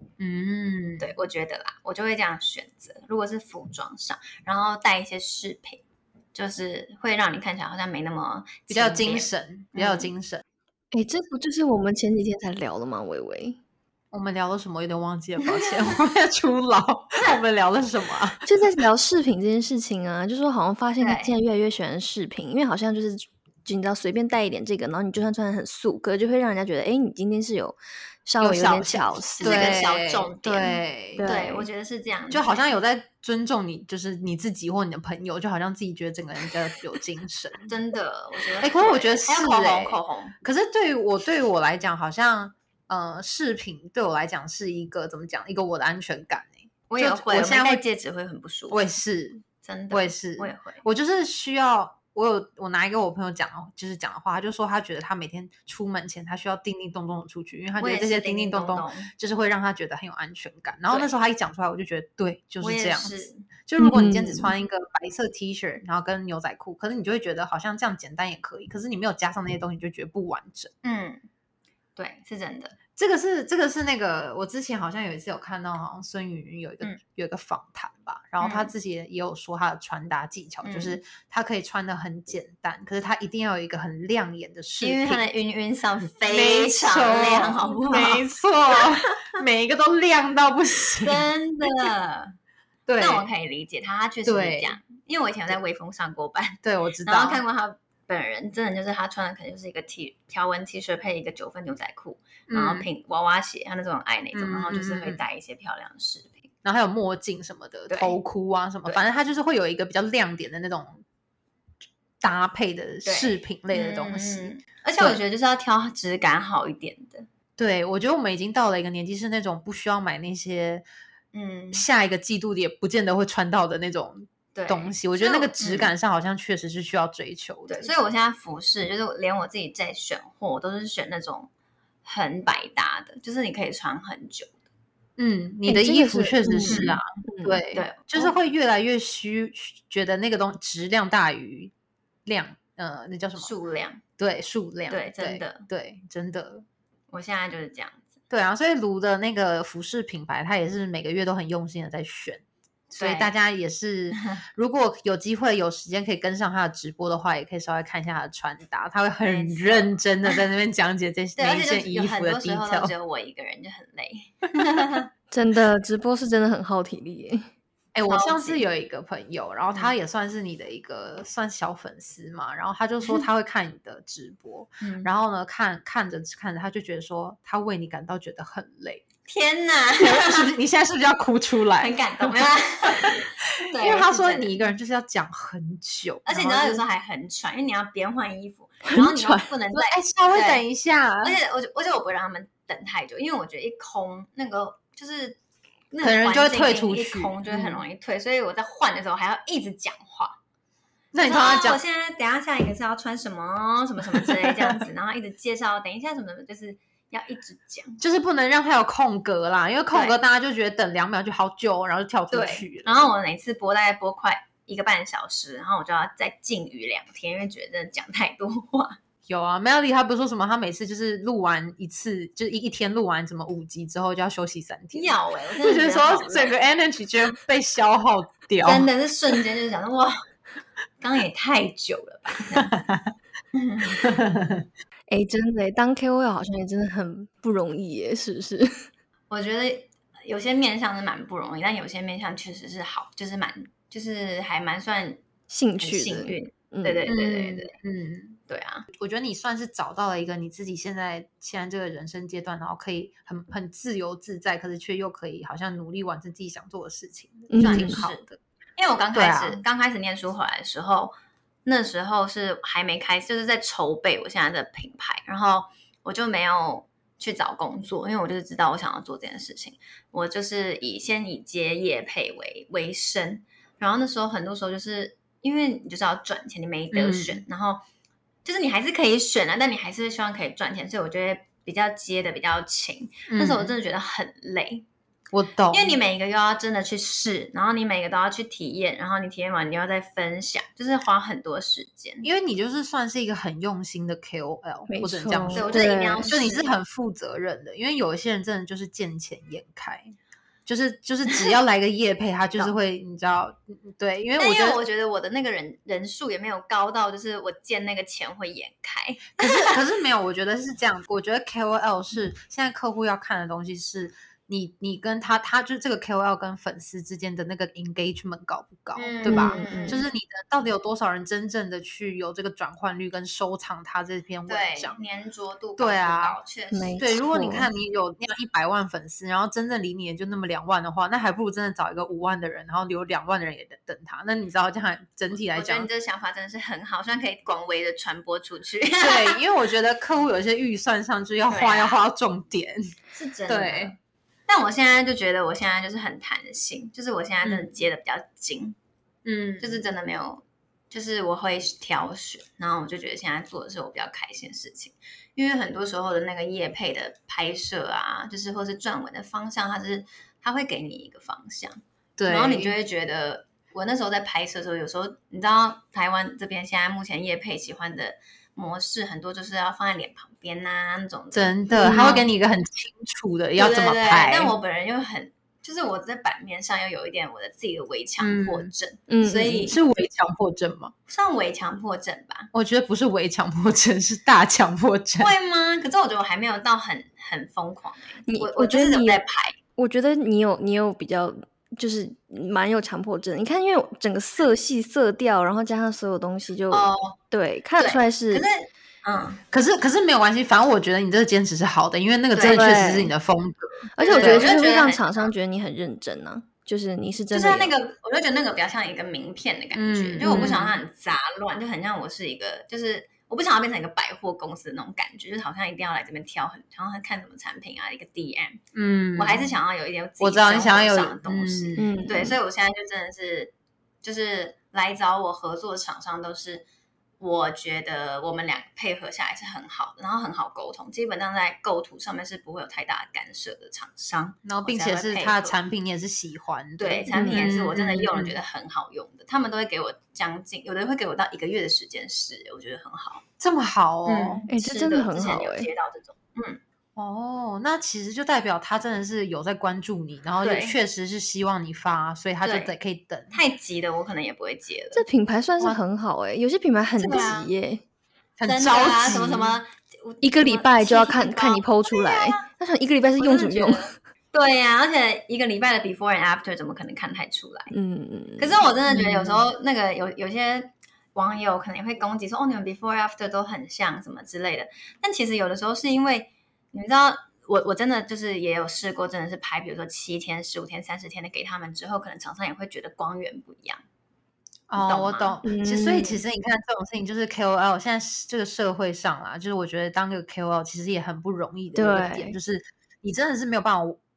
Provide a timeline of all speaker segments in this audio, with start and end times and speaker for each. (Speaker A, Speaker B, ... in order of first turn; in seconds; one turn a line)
Speaker A: 0.2-1.1
Speaker B: 1.0-5.8
Speaker B: 6.3-10.1
Speaker A: 8.7-10.4
Speaker C: 10.9-13.6
Speaker A: 14.1-18.4
Speaker B: 15.4-15.8
Speaker C: 18.4-29.8
Speaker B: 21.0-21.3
Speaker A: 28.4-31.3
Speaker B: 29.4-32.7
Speaker C: 31.2-31.7
Speaker A: 32.3-37.7
Speaker B: 37.7-40.4
Speaker A: 38.6-47.8
Speaker B: 46.9-48.8
Speaker A: 48.7-70.7
Speaker B: 49.6-50.8
Speaker B: 57.8-59.1
Speaker B: 62.6-63.5
Speaker C: 63.8-64.5
Speaker B: 70.8-71.2
Speaker B: 72.0-72.8
Speaker A: 73.0-85.2
Speaker B: 78.4-78.7
Speaker B: 80.6-81.0
Speaker B: 84.8-88.3
Speaker A: 86.2-91.9
Speaker B: 88.8-89.1
Speaker B: 91.0-92.3
Speaker A: 92.9-93.3
Speaker B: 93.0-106.5
Speaker A: 94.2-94.8
Speaker A: 96.6-97.4
Speaker A: 102.5-102.9
Speaker A: 104.3-105.2
Speaker A: 106.7-111.0
Speaker B: 107.9-108.2
Speaker A: 112.2-115.2
Speaker B: 113.0-117.3
Speaker A: 117.6-120.8
Speaker B: 121.3-121.9
Speaker A: 121.7-127.9
Speaker B: 124.5-125.9
Speaker B: 127.7-131.5
Speaker B: 132.0-134.6
Speaker A: 135.2-141.7
Speaker C: 135.7-137.6
Speaker B: 136.7-137.0
Speaker B: 137.7-138.3
Speaker A: 142.3-143.5
Speaker B: 143.4-144.0
Speaker A: 144.2-146.7
Speaker B: 144.9-145.7
Speaker B: 147.1-148.1
Speaker A: 148.3-152.4
Speaker B: 152.9-153.3
Speaker A: 152.9-162.9
Speaker B: 154.1-154.4
Speaker B: 159.2-160.4
Speaker B: 161.4-165.1
Speaker C: 165.3-167.5
Speaker A: 167.9-179.1
Speaker B: 168.1-168.6
Speaker B: 174.8-175.1
Speaker B: 179.3-180.5
Speaker A: 180.0-186.8
Speaker B: 181.8-184.6
Speaker B: 186.3-190.6
Speaker C: 188.8-189.5
Speaker A: 189.7-191.4
Speaker B: 191.2-195.4
Speaker B: 195.9-200.4
Speaker A: 196.0-197.8
Speaker A: 201.1-201.8
Speaker B: 201.2-208.0
Speaker A: 204.1-204.9
Speaker A: 208.0-213.1
Speaker B: 209.9-210.2
Speaker B: 212.3-219.0
Speaker A: 219.3-228.9
Speaker B: 224.9-226.6
Speaker B: 228.6-230.2
Speaker B: 231.0-232.8
Speaker A: 232.5-233.1
Speaker B: 233.5-234.1
Speaker A: 233.9-234.7
Speaker C: 235.1-238.9
Speaker B: 239.3-245.2
Speaker C: 245.5-247.0
Speaker B: 245.8-247.8
Speaker A: 247.1-248.4
Speaker B: 248.5-248.9
Speaker A: 248.9-258.4
Speaker C: 257.5-258.0
Speaker B: 257.6-258.2
Speaker B: 258.8-261.1
Speaker A: 259.1-259.6
Speaker B: 261.7-277.9
Speaker A: 276.9-277.4
Speaker B: 278.4-284.9
Speaker A: 283.3-283.8
Speaker A: 285.3-286.0
Speaker B: 285.7-292.3
Speaker A: 292.2-300.1
Speaker C: 294.9-296.3
Speaker B: 295.5-296.7
Speaker A: 300.7-304.8
Speaker B: 304.4-309.8
Speaker A: 309.4-325.0
Speaker B: 318.9-320.0
Speaker C: 319.2-320.0
Speaker B: 324.5-327.6
Speaker A: 325.8-326.4
Speaker C: 326.7-327.7
Speaker A: 327.0-335.9
Speaker B: 335.5-339.4
Speaker A: 339.0-342.9
Speaker B: 341.5-342.0
Speaker B: 343.1-348.8
Speaker A: 343.5-343.9
Speaker A: 349.2-349.8
Speaker B: 349.6-372.3
Speaker A: 362.2-362.8
Speaker A: 371.3-374.6
Speaker C: 371.7-372.2
Speaker B: 373.6-379.8
Speaker A: 378.2-378.7
Speaker C: 379.1-379.7
Speaker A: 379.3-380.9
Speaker B: 381.1-382.5
Speaker A: 382.5-385.3
Speaker B: 385.2-389.6
Speaker C: 388.3-389.2
Speaker C: 389.8-398.5
Speaker B: 396.7-397.2
Speaker B: 397.8-399.4
Speaker A: 399.5-404.5
Speaker B: 402.3-402.8
Speaker C: 402.4-403.1
Speaker C: 404.0-407.7
Speaker B: 404.0-405.3
Speaker B: 407.3-423.5
Speaker A: 409.7-410.8
Speaker C: 410.2-410.6
Speaker A: 418.7-419.6
Speaker A: 420.2-421.9
Speaker C: 421.8-422.4
Speaker B: 424.0-426.7
Speaker B: 427.2-435.6
Speaker A: 434.4-438.4
Speaker B: 436.8-443.2
Speaker C: 437.1-437.5
Speaker A: 443.4-444.4
Speaker B: 444.1-446.6
Speaker C: 444.5-445.7
Speaker A: 447.0-453.4
Speaker B: 450.4-450.8
Speaker B: 452.4-452.8
Speaker B: 453.3-455.1
Speaker C: 454.9-457.8
Speaker B: 457.0-457.5
Speaker A: 458.4-459.6
Speaker B: 458.5-462.5
Speaker C: 460.2-463.9
Speaker B: 463.2-467.7
Speaker C: 467.7-468.6
Speaker B: 468.4-483.8
Speaker A: 468.9-469.4
Speaker A: 484.7-494.0
Speaker B: 484.8-485.4
Speaker C: 485.4-486.2
Speaker C: 491.8-492.4